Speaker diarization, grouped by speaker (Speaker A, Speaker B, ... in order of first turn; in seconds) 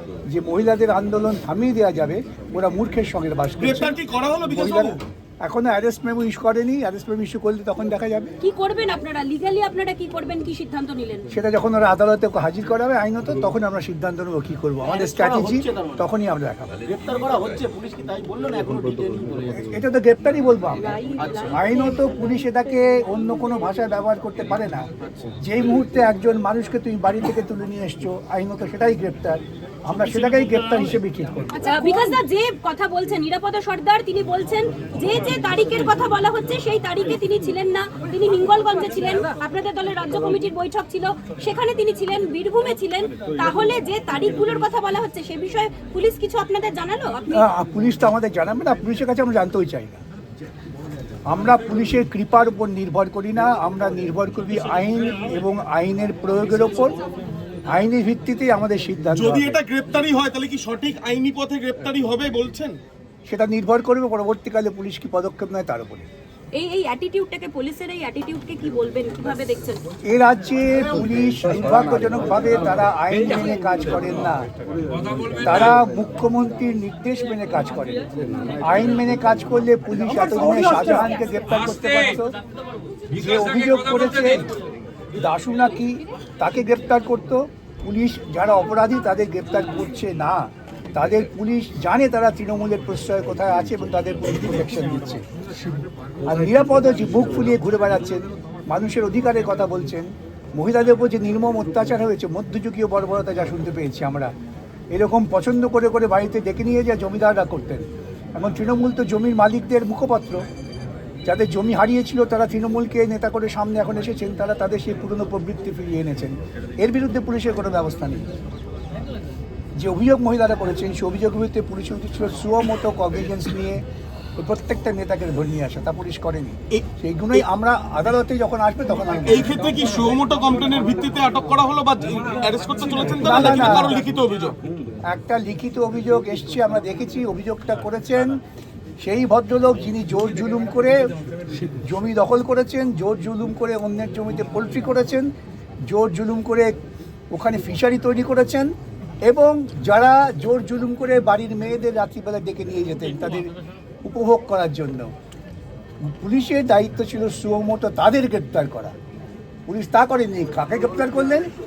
Speaker A: 0.3-8.3, 11.3-16.7, 19.5-20.9, 21.5-24.9, 25.4-31.6, 47.3-50.0, 51.3-57.0, 57.7-59.5, 63.2-66.1, 70.0-74.4, 75.4-78.0, 78.6-82.3, 83.1-84.5, 85.1-95.2, 96.2-104.3, 104.9-107.8, 108.3-110.4, 111.2-118.3, 119.8-123.8, 124.4-129.7, 133.2-134.0, 135.1-138.3, 139.0-141.1, 141.6-145.3, 145.9-146.8, 147.3-148.7, 149.2-153.5, 154.0-155.1, 156.0-158.9, 159.7-161.5
Speaker B: 3.6-5.0, 59.1-62.8, 129.2-134.6
Speaker C: 8.4-11.3, 20.8-22.0, 31.5-47.4, 66.5-69.8
Speaker D: 14.9-15.9, 16.9-19.5